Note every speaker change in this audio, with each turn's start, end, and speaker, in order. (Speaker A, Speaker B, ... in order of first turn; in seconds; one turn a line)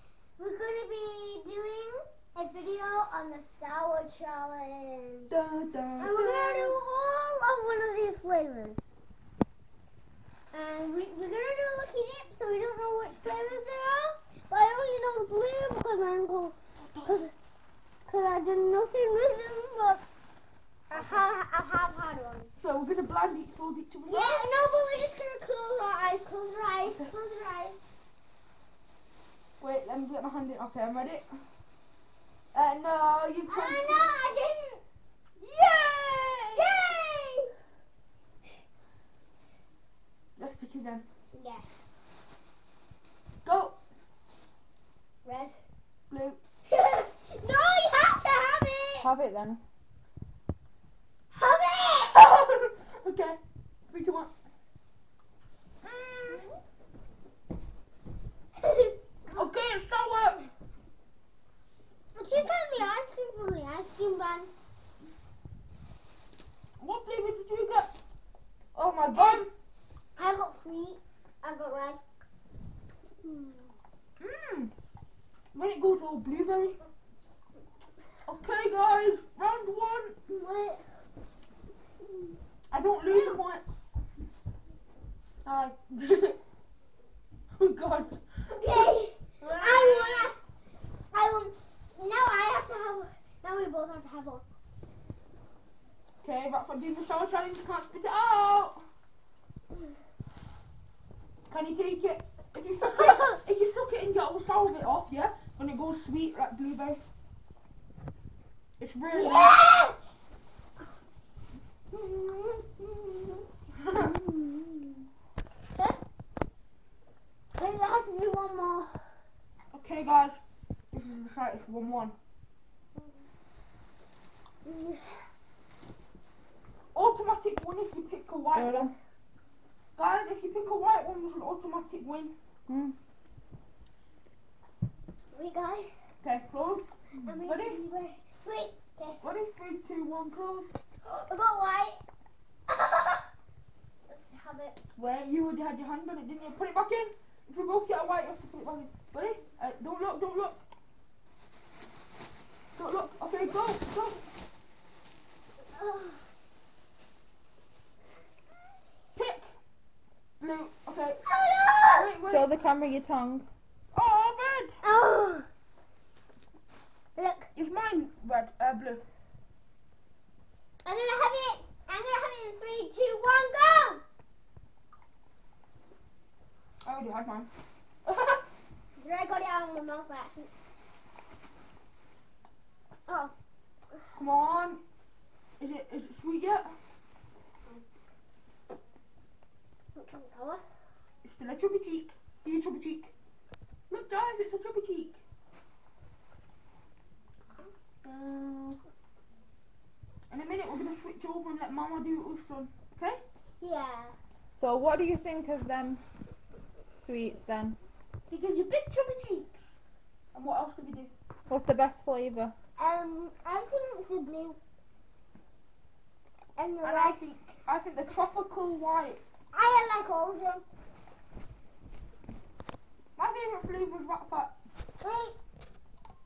Speaker A: 0.4-5.3
Speaker B: 5.3-6.8
Speaker A: 6.0-9.0
Speaker A: 10.5-17.3
Speaker B: 16.8-17.2
Speaker A: 18.1-20.0
Speaker A: 20.9-22.5
Speaker B: 20.9-21.3
Speaker B: 22.6-24.5
Speaker A: 24.1-27.8
Speaker B: 29.6-31.4
Speaker B: 32.5-34.1
Speaker A: 33.5-34.8
Speaker B: 35.4-36.9
Speaker A: 36.5-37.5
Speaker B: 40.4-41.0
Speaker A: 41.3-41.7
Speaker B: 43.4-43.8
Speaker A: 45.2-45.6
Speaker B: 46.1-46.4
Speaker A: 46.7-49.1
Speaker C: 49.0-49.6
Speaker A: 51.3-52.1
Speaker B: 52.0-54.3
Speaker B: 55.8-56.5
Speaker A: 56.3-56.6
Speaker A: 58.6-58.9
Speaker B: 59.3-60.5
Speaker A: 62.1-64.5
Speaker B: 66.8-67.9
Speaker B: 68.8-69.5
Speaker A: 69.2-69.5
Speaker A: 70.2-72.0
Speaker A: 73.2-73.7
Speaker B: 74.2-74.7
Speaker B: 75.5-76.8
Speaker B: 78.2-80.2
Speaker A: 80.3-80.9
Speaker A: 82.1-82.4
Speaker B: 82.7-83.6
Speaker A: 83.1-83.4
Speaker B: 85.4-86.4
Speaker B: 87.5-90.3
Speaker A: 88.6-90.4
Speaker A: 91.1-94.4
Speaker B: 96.2-98.8
Speaker B: 101.5-107.0
Speaker B: 108.8-109.6
Speaker A: 109.1-110.2
Speaker A: 111.9-114.9
Speaker A: 115.7-116.0
Speaker A: 117.5-119.1
Speaker B: 119.7-120.4
Speaker B: 120.9-122.2
Speaker A: 124.7-125.2
Speaker B: 126.9-128.9
Speaker C: 128.5-128.9
Speaker B: 130.0-132.3
Speaker C: 132.7-133.0
Speaker A: 135.3-135.9
Speaker B: 136.2-137.8
Speaker A: 137.2-139.2
Speaker B: 139.2-140.7
Speaker A: 141.0-142.0
Speaker A: 142.7-143.3
Speaker A: 144.1-144.8
Speaker B: 144.9-150.6
Speaker B: 152.8-154.2
Speaker A: 155.7-156.2
Speaker B: 159.2-159.5
Speaker B: 160.4-161.2
Speaker A: 161.2-162.1
Speaker B: 161.8-162.5
Speaker C: 162.2-163.5
Speaker B: 163.9-164.8
Speaker A: 164.8-165.5
Speaker A: 167.2-167.5
Speaker B: 167.6-169.0
Speaker A: 170.8-174.0
Speaker B: 176.8-177.5
Speaker B: 178.1-178.4
Speaker A: 179.0-180.5
Speaker A: 183.1-183.3
Speaker B: 184.1-184.8
Speaker B: 185.6-186.8
Speaker A: 189.9-190.7
Speaker B: 191.2-193.1
Speaker B: 193.9-195.2
Speaker B: 198.0-198.8
Speaker B: 200.3-203.2
Speaker A: 203.6-204.2
Speaker C: 204.6-206.0
Speaker C: 206.9-207.8
Speaker B: 208.3-209.7
Speaker B: 210.3-211.1
Speaker C: 211.5-212.5
Speaker A: 212.8-214.6
Speaker A: 216.6-217.2
Speaker B: 216.8-219.2
Speaker A: 219.5-220.7
Speaker B: 223.2-224.5
Speaker A: 225.0-225.4